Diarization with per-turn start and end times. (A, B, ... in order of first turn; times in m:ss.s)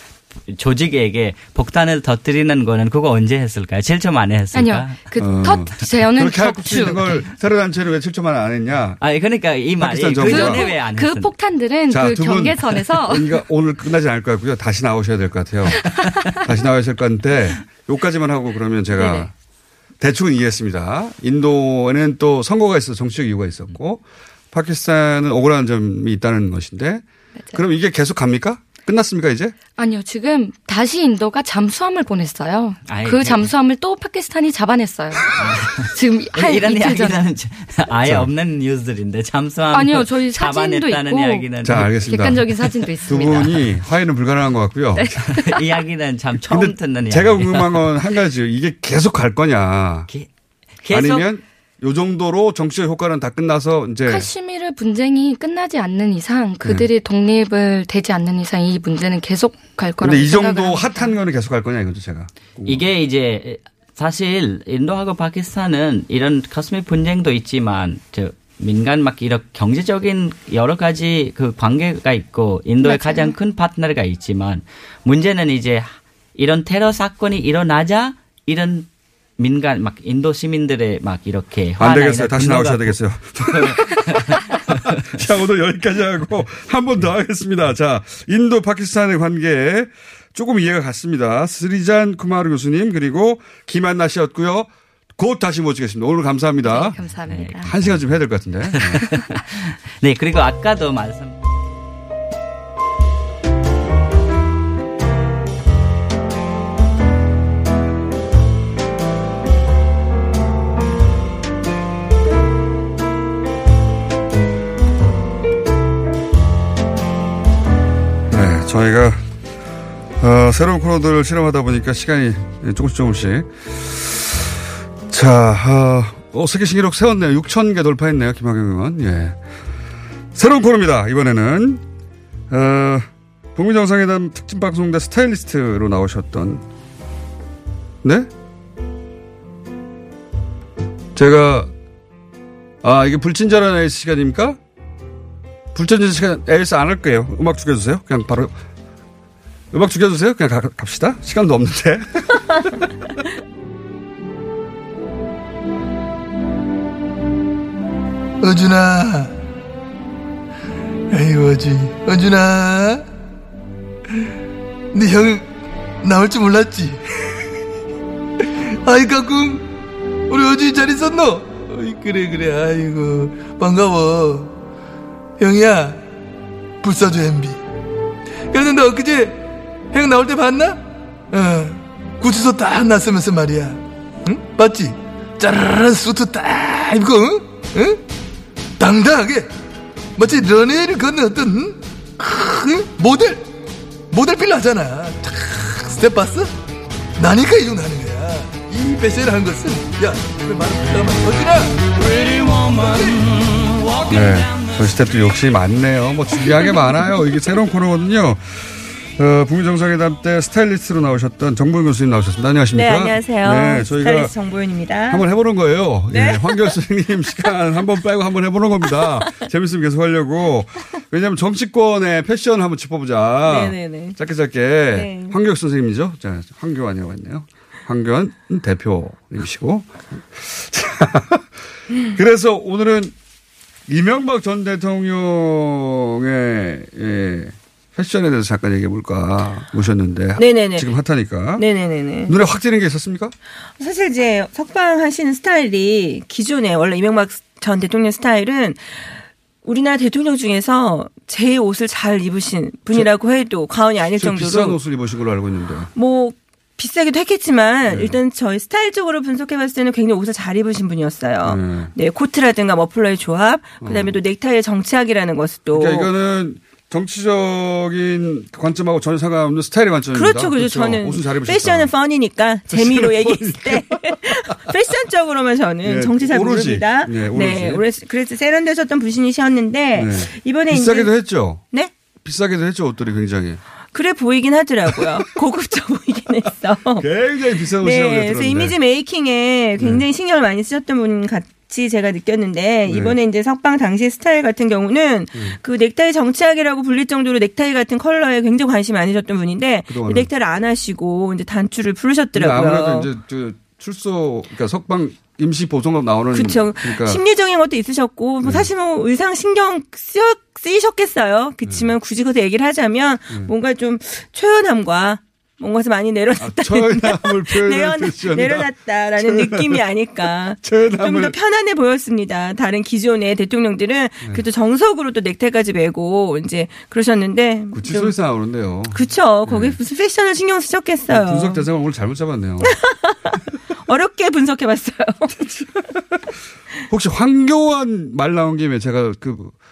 0:00.4-0:05.2 A
0:04.5-0:07.2 B
0:05.2-0:09.0 C
0:09.0-0:11.3 A
0:09.8-0:10.7 C
0:10.2-0:13.4 B
0:11.9-0:19.3 C
0:19.0-0:19.3 B
0:20.0-0:29.6 C
0:29.8-0:37.2 B
0:32.8-0:33.5 A
0:35.3-0:42.0 A
0:39.7-0:43.6 B
0:41.6-0:45.4 C
0:45.0-0:45.5 B
0:45.2-0:47.9 A
0:46.5-0:50.1 C
0:50.8-0:51.3 A
0:50.9-0:54.3 C
0:54.0-1:01.1 B
1:00.0-1:02.8 C
1:02.6-1:25.2 A
1:12.8-1:13.3 B
1:21.8-1:24.4 C
1:25.0-1:37.0 C
1:36.7-1:37.7 B
1:37.1-1:38.0 A
1:37.6-1:39.1 C
1:38.7-1:41.3 A
1:58.3-1:59.2 C
2:00.2-2:04.5 C
2:05.1-2:09.4 C
2:10.3-2:11.8 C
2:12.5-2:16.6 C
2:18.0-2:18.3 C
2:21.1-2:21.7 C
2:22.8-2:24.6 C
2:25.7-2:28.6 C
2:29.7-2:32.6 C
2:38.4-2:39.4 D
2:41.1-2:43.1 D
2:44.9-2:45.5 D
2:46.0-2:47.0 D
2:48.8-2:49.7 D
2:50.3-2:54.6 D
2:55.4-2:56.0 D
2:56.8-2:57.6 D
2:58.5-3:08.0 D
3:08.8-3:09.5 D
3:10.2-3:13.4 D
3:14.1-3:16.5 D
3:17.2-3:23.3 D
3:24.1-3:34.3 C
3:32.7-3:35.2 E
3:35.1-3:51.5 C
3:36.1-3:36.8 E
3:43.4-3:44.2 E
3:44.9-3:45.3 E
3:52.1-3:53.1 C
3:53.9-4:01.6 C
4:00.4-4:00.9 E
4:01.6-4:02.3 E
4:02.3-4:03.3 C
4:03.8-4:14.8 E
4:14.1-4:15.9 C
4:15.9-4:26.1 E
4:17.9-4:18.2 C
4:21.4-4:21.9 C
4:23.8-4:24.2 C
4:25.7-4:31.9 C
4:30.1-4:41.1 E
4:32.7-4:34.8 C
4:35.8-4:37.8 C
4:39.9-4:41.6 C
4:42.2-4:43.6 C
4:43.9-4:47.1 E
4:45.0-4:45.2 C
4:47.0-4:48.8 C
4:47.6-5:03.1 E
4:49.8-4:50.0 C
4:52.9-4:53.2 C
4:59.9-5:00.3 C
5:02.3-5:07.2 C
5:06.3-5:28.1 E
5:08.4-5:08.7 C
5:11.6-5:12.0 C
5:16.4-5:19.8 C
5:20.6-5:21.3 C
5:27.7-5:29.8 C
5:28.9-5:31.6 E
5:31.1-5:32.7 C
5:32.6-5:35.4 E
5:35.3-5:36.2 C
5:36.9-5:39.6 C